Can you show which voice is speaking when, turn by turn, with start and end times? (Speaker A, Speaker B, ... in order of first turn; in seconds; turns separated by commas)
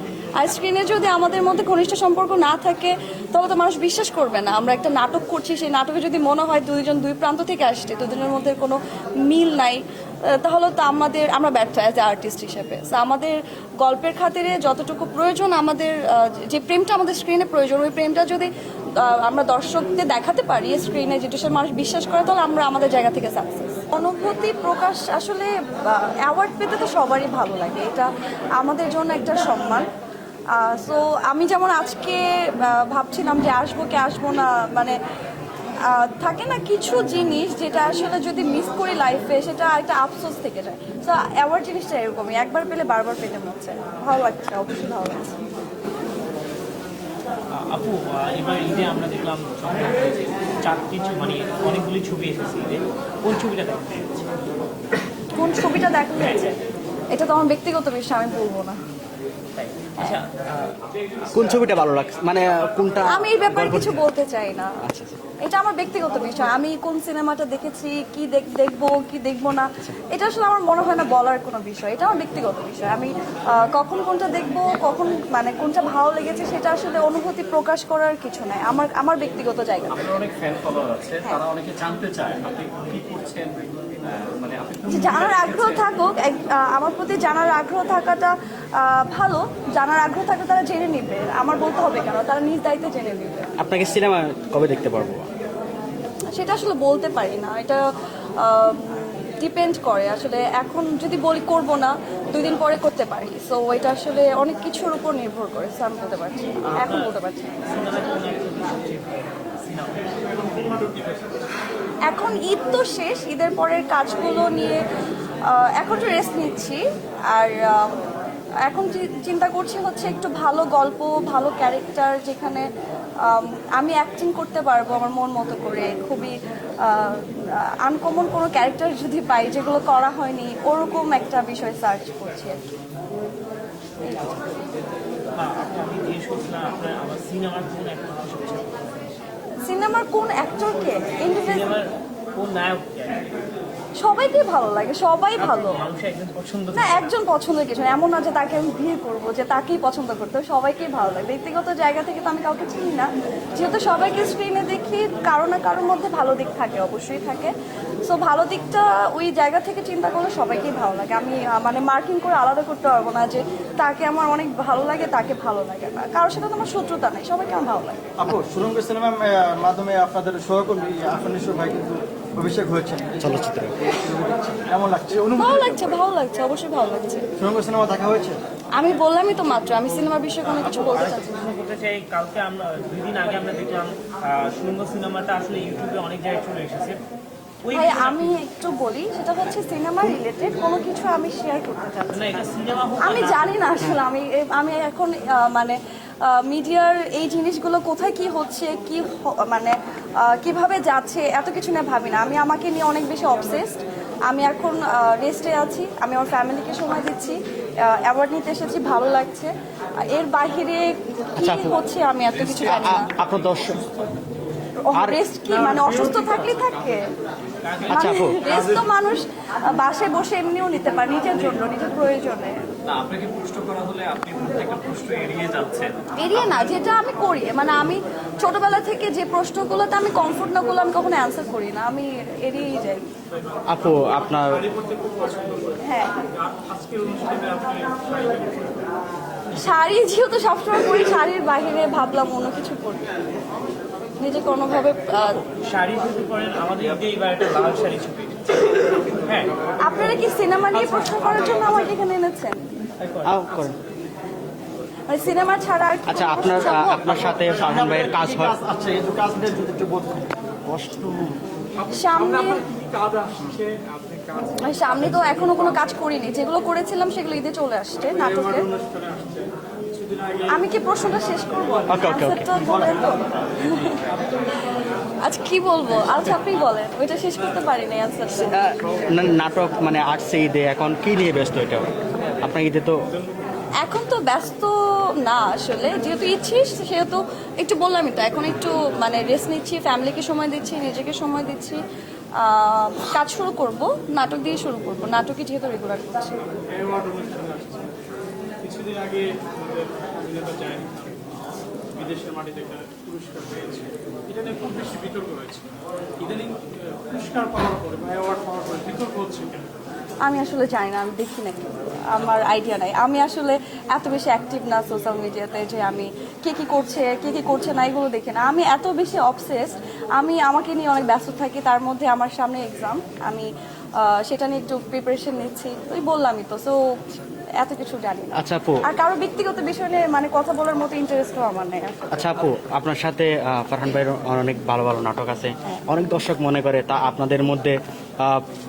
Speaker A: 0.3-29.9, Speaker A: 30.5-35.0, Speaker A: 35.8-45.4, Speaker B: 47.5-54.2, Speaker A: 55.3-56.5, Speaker B: 56.2-56.5, Speaker A: 57.1-58.8, Speaker B: 59.5-60.8, Speaker C: 61.3-64.0, Speaker A: 63.0-64.7, Speaker C: 64.8-65.2, Speaker A: 65.4-80.0, Speaker D: 80.0-85.6, Speaker A: 84.8-93.5, Speaker C: 93.6-95.2, Speaker A: 96.3-97.8, Speaker A: 98.4-107.6, Speaker B: 106.6-110.1, Speaker E: 110.2-111.4, Speaker A: 112.0-114.8, Speaker A: 115.5-118.0, Speaker A: 118.6-122.7, Speaker A: 123.2-132.6, Speaker A: 134.0-134.4, Speaker B: 135.3-138.7, Speaker A: 139.6-141.7, Speaker B: 141.4-143.3, Speaker A: 144.0-145.8, Speaker B: 145.4-147.2, Speaker A: 146.7-157.5, Speaker A: 158.1-168.1, Speaker F: 168.2-175.8, Speaker C: 173.2-173.7, Speaker A: 175.3-177.2, Speaker F: 177.4-178.4, Speaker A: 178.8-181.4, Speaker B: 180.4-187.0, Speaker B: 187.6-188.4, Speaker A: 187.7-192.4, Speaker B: 192.1-193.6, Speaker A: 193.0-209.5, Speaker A: 210.0-213.1, Speaker C: 211.4-211.8, Speaker C: 212.3-213.8, Speaker A: 214.8-217.0, Speaker C: 214.9-215.2, Speaker E: 215.5-216.0, Speaker B: 217.6-218.8, Speaker C: 217.9-218.4, Speaker A: 217.9-222.6, Speaker D: 222.8-226.0, Speaker A: 226.2-233.0, Speaker E: 233.5-238.9, Speaker C: 233.7-234.6, Speaker A: 235.8-236.1, Speaker A: 239.5-243.1, Speaker A: 244.2-245.4, Speaker B: 245.1-248.5, Speaker B: 249.2-249.5, Speaker A: 249.8-252.6, Speaker B: 253.0-253.3, Speaker C: 253.2-253.8, Speaker A: 255.1-257.5, Speaker C: 256.1-258.6, Speaker F: 257.3-260.3, Speaker C: 260.7-261.4, Speaker E: 261.8-265.3, Speaker A: 261.9-262.6, Speaker A: 264.6-268.7, Speaker E: 268.2-270.5, Speaker A: 270.5-274.1, Speaker C: 271.9-272.5, Speaker F: 272.6-273.1, Speaker A: 275.2-278.5, Speaker C: 278.3-283.0, Speaker A: 283.8-291.8, Speaker A: 292.4-296.4, Speaker E: 296.7-297.9, Speaker E: 298.6-301.2, Speaker E: 301.9-309.7, Speaker A: 310.2-326.8, Speaker A: 327.6-332.4, Speaker C: 328.3-328.9, Speaker C: 332.1-338.4